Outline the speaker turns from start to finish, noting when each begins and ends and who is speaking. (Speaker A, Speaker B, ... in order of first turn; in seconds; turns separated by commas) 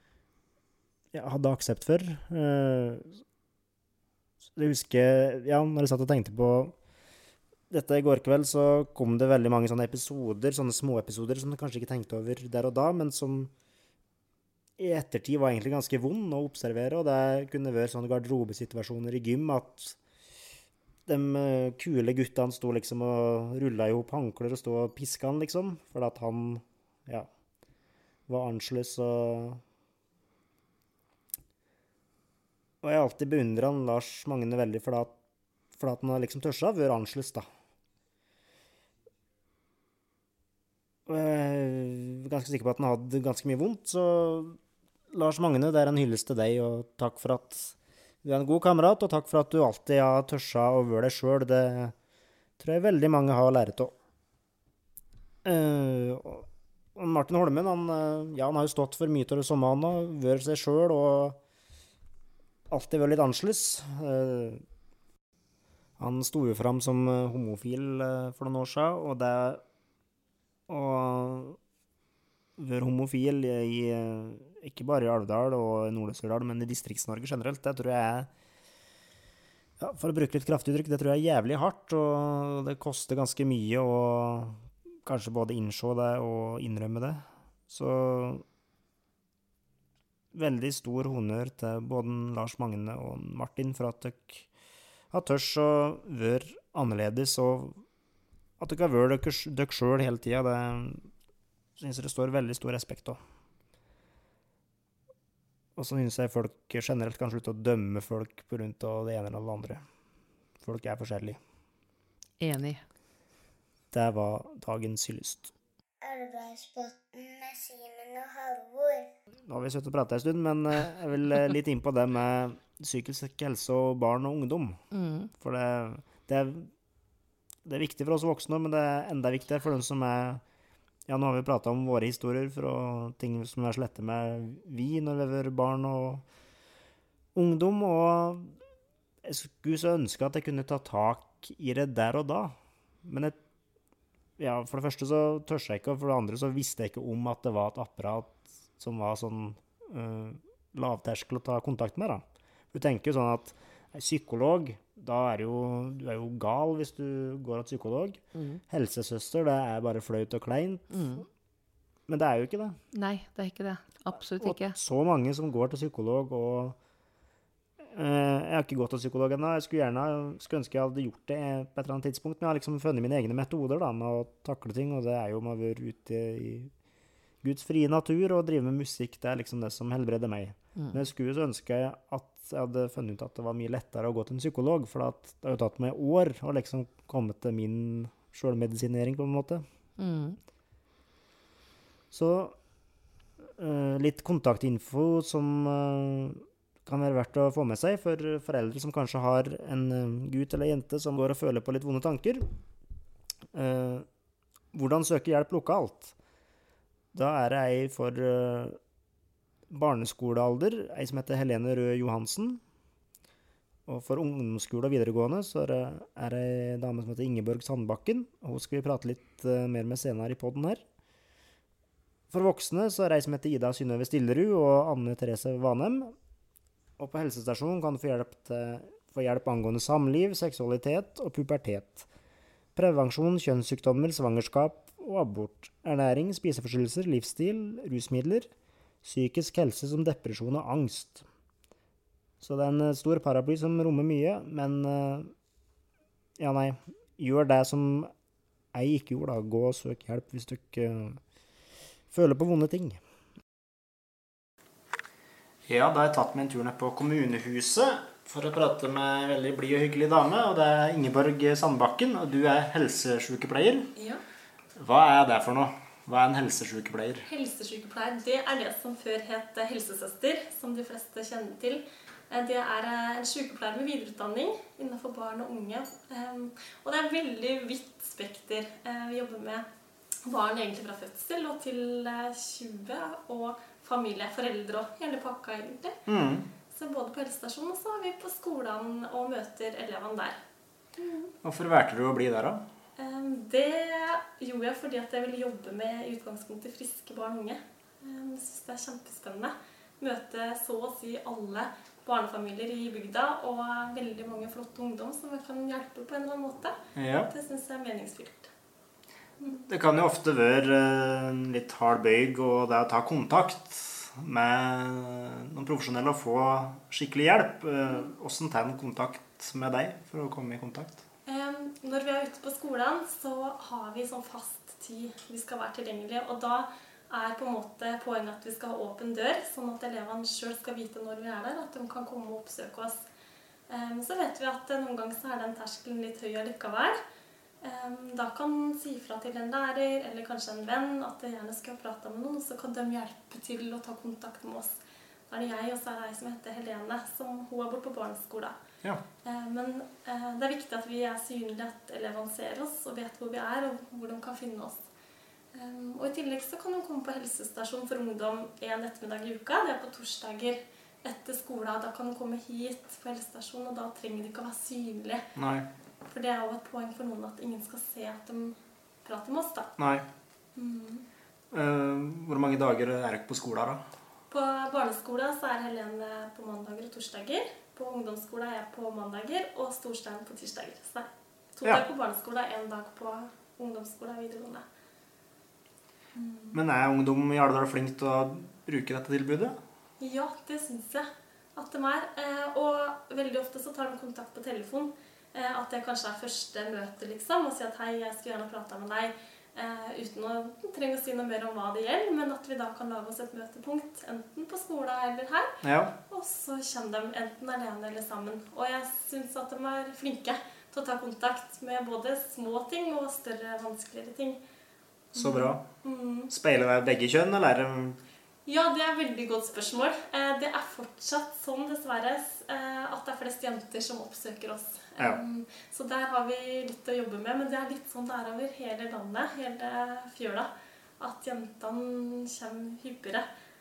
Speaker A: 1.1-3.2, Speaker A: 4.5-6.7, Speaker A: 7.7-13.5, Speaker A: 14.8-20.0, Speaker A: 21.1-27.3, Speaker A: 28.3-29.6, Speaker A: 32.8-35.1, Speaker A: 35.8-37.5, Speaker A: 41.1-44.6, Speaker A: 45.1-51.9, Speaker A: 52.6-53.9, Speaker A: 55.4-61.4, Speaker A: 62.7-64.6, Speaker A: 66.0-69.6, Speaker A: 70.7-71.6, Speaker A: 72.6-78.3, Speaker A: 79.8-88.4, Speaker A: 90.3-94.5, Speaker A: 95.1-97.8, Speaker A: 98.6-101.1, Speaker A: 101.8-103.2, Speaker A: 105.8-109.8, Speaker A: 110.6-111.4, Speaker B: 112.4-112.8, Speaker A: 113.9-115.5, Speaker C: 116.0-119.1, Speaker A: 119.5-124.8, Speaker B: 124.9-125.3, Speaker A: 125.4-126.7, Speaker A: 127.6-130.4, Speaker A: 131.1-136.2, Speaker A: 137.3-138.5, Speaker A: 139.2-143.4, Speaker A: 144.4-161.1, Speaker B: 158.3-158.6, Speaker B: 160.9-161.2, Speaker A: 162.1-162.8, Speaker B: 162.9-164.8, Speaker A: 164.4-166.8, Speaker A: 167.9-176.7, Speaker A: 177.4-189.6, Speaker B: 190.0-190.4, Speaker A: 192.1-192.6, Speaker A: 193.6-202.5, Speaker A: 203.5-204.1, Speaker A: 204.7-206.1, Speaker A: 207.1-208.8, Speaker A: 209.7-212.6, Speaker A: 213.9-220.8, Speaker A: 222.3-226.1, Speaker A: 227.0-232.1, Speaker A: 232.8-238.5, Speaker A: 239.0-241.2, Speaker A: 242.4-245.3, Speaker A: 246.4-248.1, Speaker A: 248.7-251.2, Speaker A: 252.1-253.0, Speaker A: 255.7-263.9, Speaker D: 263.9-264.2, Speaker A: 264.8-267.2, Speaker D: 267.3-279.6, Speaker D: 280.2-286.0, Speaker A: 286.1-286.5, Speaker D: 286.7-290.4, Speaker D: 291.0-291.3, Speaker A: 291.4-292.6, Speaker D: 293.0-306.8, Speaker A: 306.9-307.3, Speaker D: 307.3-308.5, Speaker A: 309.6-321.0, Speaker D: 321.3-333.0, Speaker D: 333.7-337.0, Speaker D: 337.6-344.8, Speaker D: 345.3-348.5, Speaker D: 349.2-354.8, Speaker D: 355.5-365.3, Speaker A: 365.4-365.7, Speaker D: 366.0-369.7, Speaker A: 369.8-370.1, Speaker D: 370.6-371.0, Speaker A: 371.5-373.8, Speaker D: 374.3-384.6, Speaker D: 386.1-386.6, Speaker A: 386.5-389.6, Speaker D: 390.0-405.6, Speaker A: 405.6-405.9, Speaker D: 406.1-414.4, Speaker A: 415.1-415.6, Speaker D: 415.1-416.3, Speaker A: 416.3-418.0, Speaker D: 418.4-433.2